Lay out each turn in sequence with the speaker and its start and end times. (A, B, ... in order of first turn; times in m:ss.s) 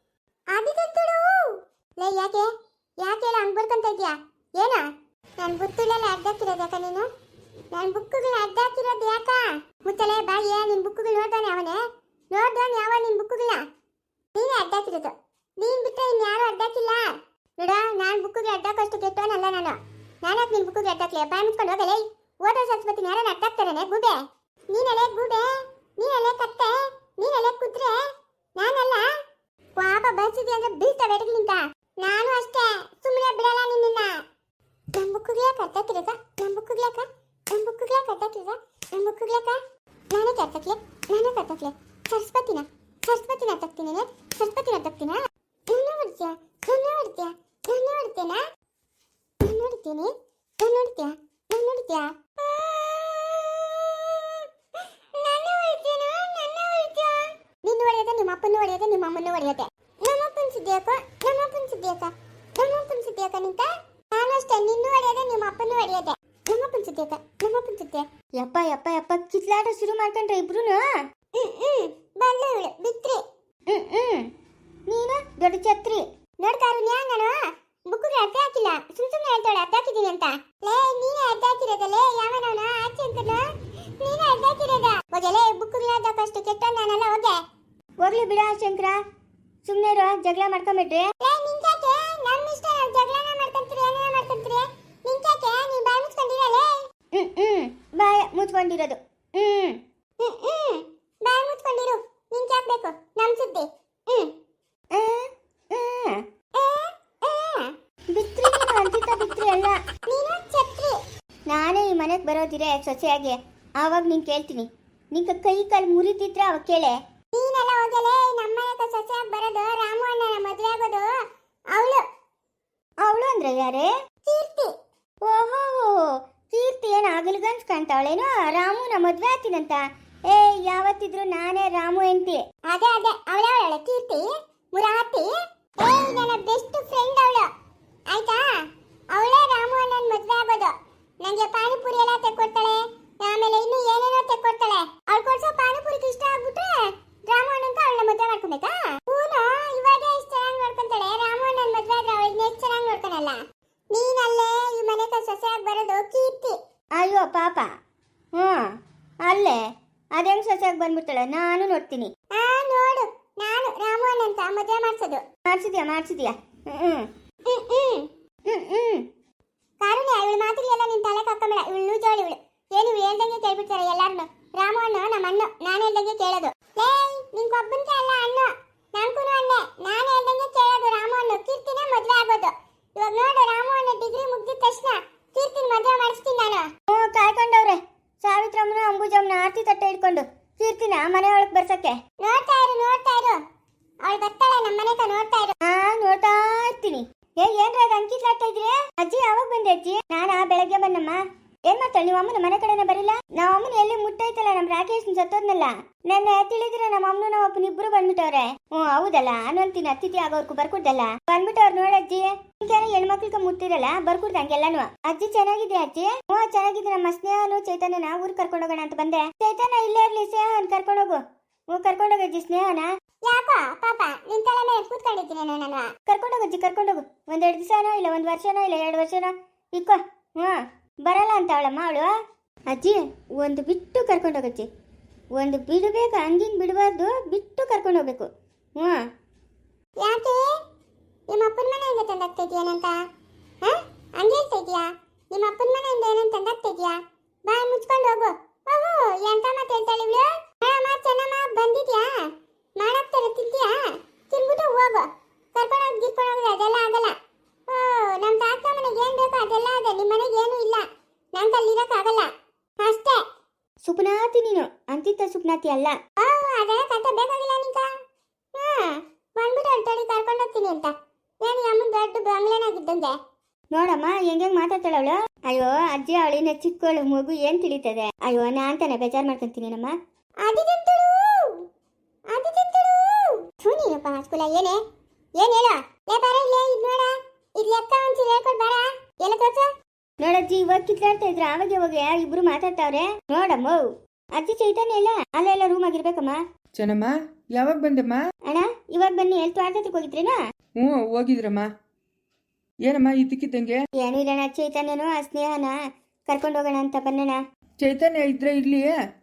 0:00.5-0:04.9 A
0:05.4-0:07.1 A
0:07.7-0:13.6 A
0:14.3-0:28.0 A
0:28.6-0:29.1 A
0:29.8-0:34.2 A
0:34.9-0:39.6 A
0:40.1-0:48.4 A
0:49.4-0:54.5 A
0:55.1-1:08.0 A
1:08.4-1:10.9 B
1:11.3-1:13.2 A
1:13.7-1:14.3 B
1:14.9-1:16.0 B
1:16.4-1:23.4 A
1:24.0-1:27.4 A
1:28.0-1:29.0 B
1:29.6-1:31.1 B
1:31.2-1:36.8 A
1:37.1-1:39.8 B
1:40.2-1:44.3 A
1:44.9-1:46.2 B
1:46.5-1:47.7 A
1:48.1-1:49.8 B
1:50.0-1:51.0 A
1:51.5-1:57.0 B
1:57.3-2:01.1 A
2:01.7-2:02.0 A
2:03.0-2:03.9 B
2:04.2-2:04.7 A
2:05.2-2:12.4 B
2:12.7-2:17.5 A
2:18.1-2:18.5 A
2:19.1-2:33.4 A
2:33.9-2:36.6 A
2:37.0-2:37.7 B
2:38.3-2:39.6 B
2:40.1-2:42.1 B
2:42.3-2:45.2 A
2:45.4-2:47.1 B
2:47.5-2:48.1 A
2:48.4-2:49.0 B
2:49.8-3:06.7 A
3:06.9-3:12.0 B
3:12.2-3:13.4 A
3:14.0-3:15.5 A
3:15.6-3:42.9 B
3:43.2-3:45.9 A
3:46.0-3:52.1 B
3:52.7-3:54.7 B
3:55.4-3:59.0 B
4:00.0-4:00.5 A
4:01.3-4:03.0 A
4:03.6-4:12.1 A
4:12.8-4:13.8 A
4:14.3-4:17.1 A
4:17.7-4:23.2 A
4:23.8-4:26.0 B
4:26.2-4:27.9 A
4:28.5-4:33.2 A
4:33.7-4:39.9 B
4:40.4-4:41.6 A
4:42.3-4:44.8 A
4:45.4-4:49.7 A
4:50.2-4:53.8 B
4:54.4-4:56.4 B
4:56.8-4:58.2 C
4:58.4-5:00.4 B
5:00.8-5:01.7 C
5:02.8-5:03.8 C
5:04.0-5:05.7 B
5:06.3-5:07.4 B
5:07.8-5:08.9 C